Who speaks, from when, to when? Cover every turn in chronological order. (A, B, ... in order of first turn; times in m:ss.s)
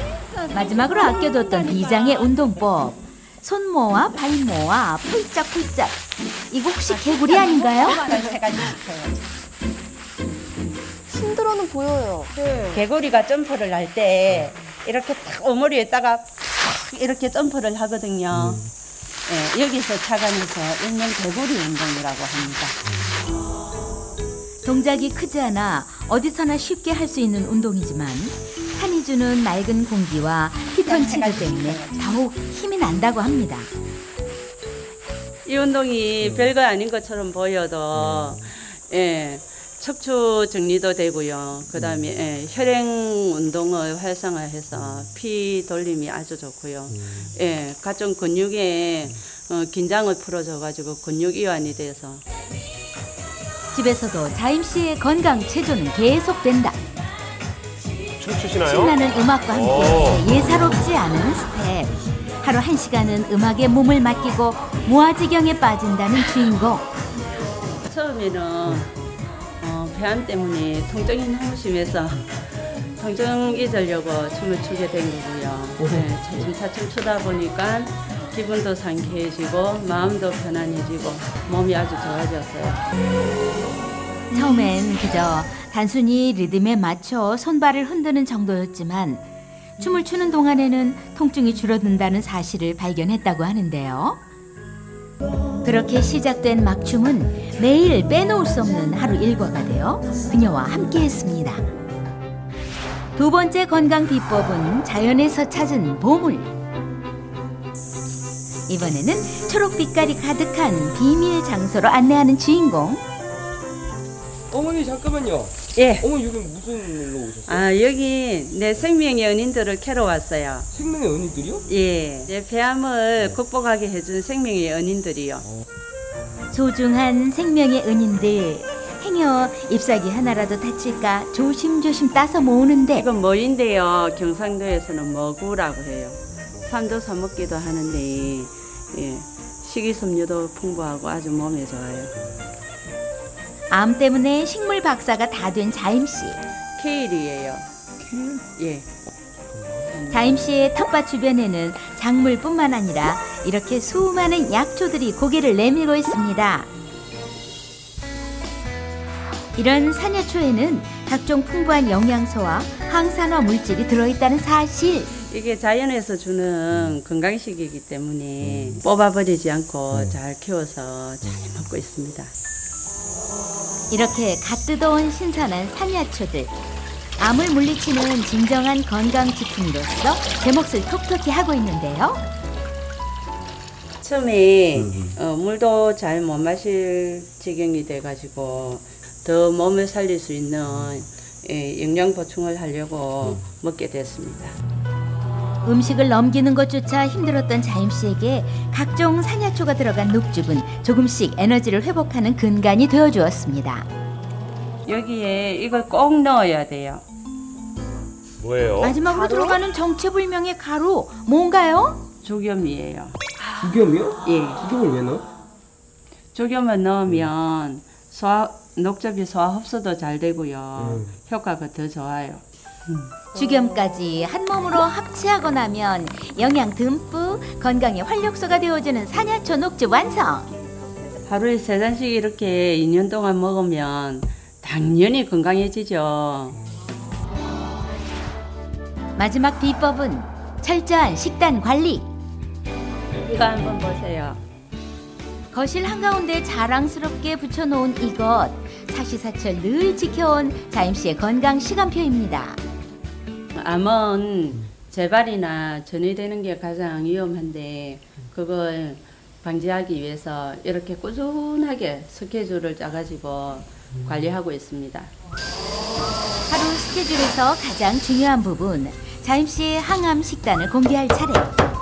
0:00.2-0:00.5 A
0:00.5-0:06.0 B
0:06.5-0:08.1 B
0:06.9-0:09.2 C
0:07.6-0:08.8 A
0:11.1-0:12.8 A
0:12.2-0:18.6 C
0:18.3-0:18.6 D
0:19.3-0:22.8 C
0:24.6-0:33.7 B
0:31.0-0:31.6 A
0:31.2-0:31.8 C
0:35.4-0:52.2 C
0:53.7-0:56.8 B
0:58.2-0:58.9 E
0:58.6-1:06.9 B
0:59.5-1:00.2 E
1:07.8-1:08.9 C
1:09.6-1:12.3 C
1:13.0-1:22.8 C
1:15.8-1:16.1 D
1:24.3-1:29.2 B
1:29.8-1:34.2 B
1:35.6-1:41.6 B
1:43.2-1:46.5 B
1:48.7-1:53.0 B
1:54.5-1:57.7 D
1:55.7-1:56.1 C
1:57.4-2:00.7 C
2:00.7-2:01.6 D
2:01.7-2:05.5 C
2:06.5-2:13.0 B
2:12.9-2:22.1 C
2:23.7-2:26.4 B
2:26.8-2:27.7 C
2:28.5-2:28.9 C
2:29.9-2:30.4 C
2:30.1-2:36.7 B
2:39.6-2:45.1 B
2:45.3-2:52.3 C
2:53.9-2:56.5 B
2:57.2-3:02.2 B
3:04.0-3:14.5 C
3:04.8-3:05.1 D
3:15.6-3:23.9 B
3:24.8-3:27.0 C
3:28.4-3:29.0 E
3:28.8-3:32.0 B
3:32.2-3:33.2 C
3:33.6-3:35.2 D
3:34.2-3:34.6 C
3:36.3-3:43.1 C
3:40.8-3:41.1 D
3:43.3-3:50.5 B
3:51.2-3:56.6 C
3:59.2-4:02.1 B
4:03.2-4:04.4 C
4:05.5-4:12.6 B
4:13.5-4:25.1 C
4:26.5-4:31.5 B